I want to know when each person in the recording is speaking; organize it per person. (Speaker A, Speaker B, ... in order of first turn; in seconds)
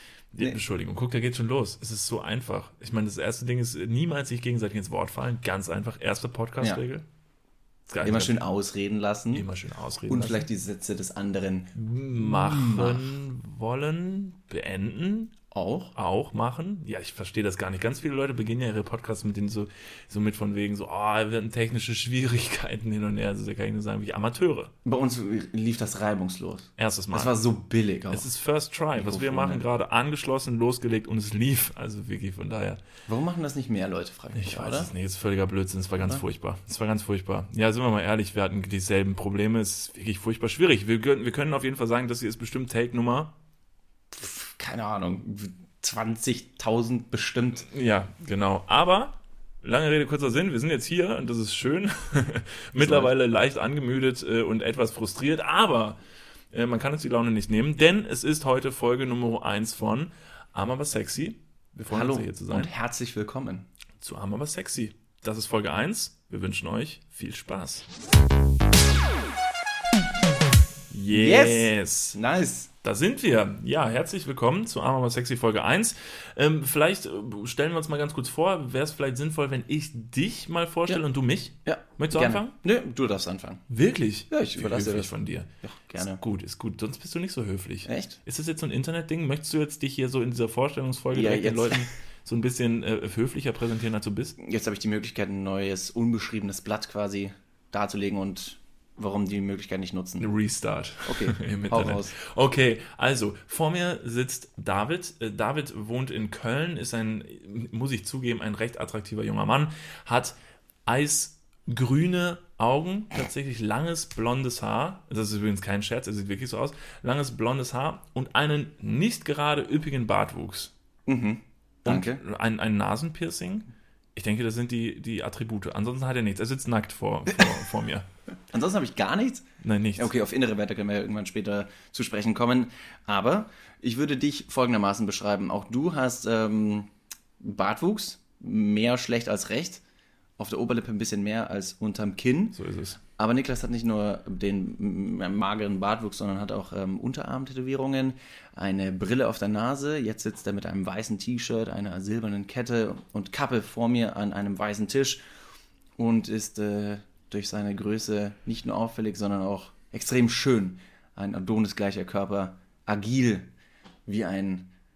Speaker A: 0.3-7.0, 7.9-8.3, 9.3-10.5, 11.8-15.3, 15.9-24.7, 26.8-27.4, 28.1-32.8, 34.4-43.3, 47.6-56.0, 56.5-62.7, 64.0-67.9, 70.9-72.2, 72.8-82.5, 83.7-94.4, 100.2-110.4, 110.9-120.7, 121.8-128.1, 129.6-130.1, 142.6-143.0
Speaker B: 8.0-9.5, 10.1-13.2, 15.5-15.9, 24.9-28.3, 28.9-29.6, 33.1-34.9, 44.1-47.7, 52.8-53.1, 61.9-63.7, 71.1-72.7, 81.7-83.6, 84.3-86.2, 87.9-88.2, 91.1-91.9, 94.4-100.3, 101.1-102.2, 121.1-122.2, 128.5-129.5, 130.0-136.9, 137.4-139.8, 140.4-142.6, 143.1-155.2, 156.0-163.5, 164.1-164.7